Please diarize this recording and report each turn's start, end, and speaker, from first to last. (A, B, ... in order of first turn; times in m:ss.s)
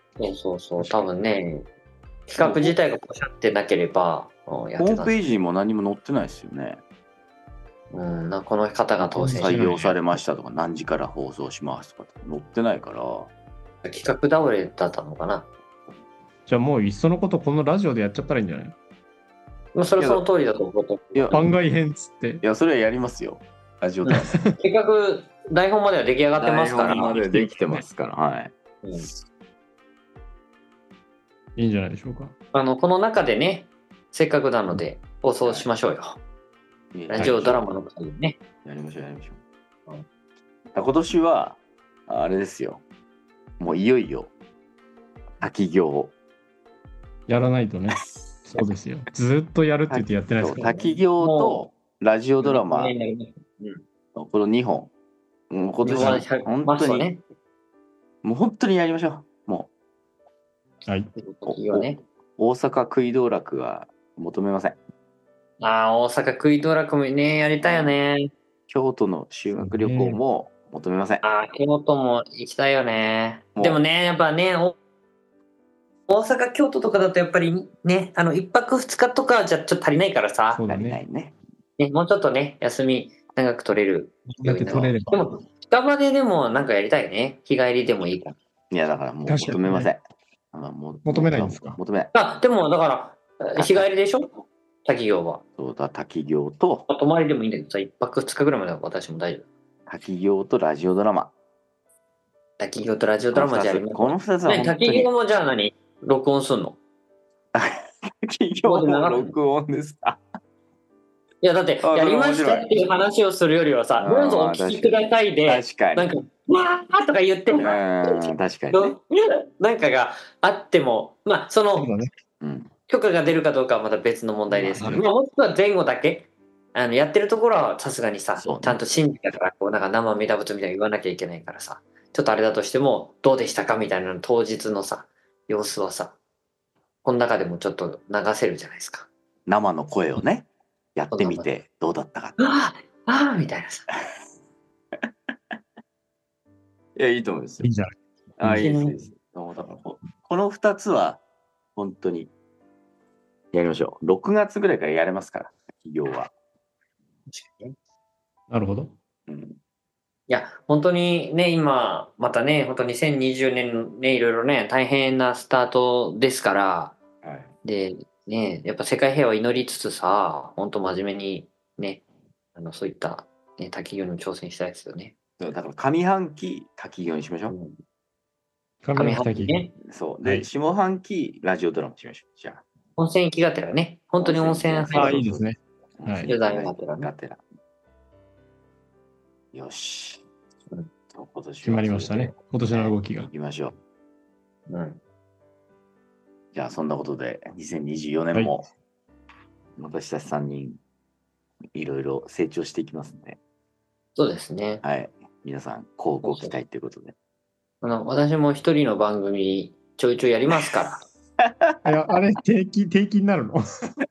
0:00.2-0:01.6 A
0:00.8-0:01.1 B
0:02.3-0:05.2 A
0:02.4-0:02.7 C
0:04.8-0:06.8 C
0:07.9-0:09.7 A
0:09.2-0:10.0 B
0:09.2-0:13.3 C
0:13.8-0:15.5 A
0:16.5-0:18.7 B
0:19.7-0:21.4 A
0:20.0-0:20.2 C
0:21.1-0:21.5 C
0:21.3-0:22.4 B
0:22.4-0:24.4 C
0:24.1-0:24.6 B
0:24.1-0:27.1 A
0:26.4-0:28.5 C
0:26.9-0:27.8 B
0:31.6-0:32.3 B
0:32.5-0:36.2 A
0:35.4-0:35.7 C
0:36.9-0:37.7 C
0:37.1-0:38.4 A
0:37.2-0:37.4 B
0:38.6-0:39.4 C
0:40.7-0:42.8 C
0:43.6-0:44.3 C
0:45.4-0:46.1 C
0:47.3-0:50.9 B
0:49.9-0:52.9 C
0:51.2-0:51.6 A
0:52.4-0:53.8 A
0:54.1-0:54.9 C
0:55.5-0:57.1 C
0:55.8-0:57.2 A
0:55.9-0:56.2 B
0:58.2-0:59.7 C
1:01.1-1:02.0 A
1:01.5-1:04.8 C
1:05.6-1:08.3 A
1:07.6-1:08.0 C
1:08.7-1:11.2 C
1:09.6-1:10.2 B
1:11.2-1:14.7 A
1:13.6-1:13.8 C
1:16.1-1:20.6 A
1:20.5-1:21.0 B
1:20.7-1:21.4 C
1:21.8-1:28.4 A
1:24.3-1:25.2 B
1:24.6-1:25.0 C
1:28.7-1:30.0 C
1:29.2-1:29.9 B
1:30.5-1:32.1 C
1:31.0-1:31.8 B
1:32.1-1:35.4 A
1:33.6-1:33.9 C
1:35.6-1:36.9 C
1:36.9-1:39.5 A
1:39.9-1:41.3 C
1:42.6-1:46.8 A
1:43.3-1:45.1 C
1:47.5-1:50.2 C
1:48.6-1:49.4 A
1:51.4-1:59.0 A
1:51.8-1:52.8 C
1:54.0-1:56.1 C
1:57.6-1:59.0 C
1:59.6-2:01.9 A
2:01.7-2:02.1 B
2:02.4-2:02.7 C
2:02.9-2:16.2 A
2:04.5-2:05.0 B
2:08.4-2:08.8 C
2:17.0-2:19.1 A
2:19.5-2:22.4 C
2:21.1-2:21.5 A
2:22.4-2:23.9 A
2:26.9-2:27.7 C
2:27.6-2:28.6 B
2:28.4-2:31.2 C
2:28.5-2:29.0 A
2:31.8-2:32.3 C
2:33.5-2:36.3 C
2:37.3-2:37.7 A
2:38.5-2:38.9 B
2:39.3-2:39.6 C
2:40.3-2:47.0 A
2:47.2-2:47.5 C
2:47.6-2:52.0 A
2:52.5-2:55.1 A
2:55.4-2:57.6 C
2:57.5-2:57.8 A
2:58.8-2:59.6 B
2:58.9-2:59.7 A
2:59.8-3:02.6 C
3:03.0-3:05.2 A
3:04.2-3:07.4 C
3:04.9-3:06.3 B
3:06.2-3:07.1 A
3:09.5-3:10.2 C
3:11.1-3:13.8 C
3:11.6-3:13.3 B
3:14.7-3:15.0 A
3:16.5-3:18.7 C
3:19.8-3:20.8 C
3:21.7-3:23.4 C
3:24.1-3:24.8 A
3:24.8-3:27.2 C
3:26.2-3:26.5 A
3:27.8-3:31.0 A
3:31.4-3:31.8 C
3:31.8-3:33.9 B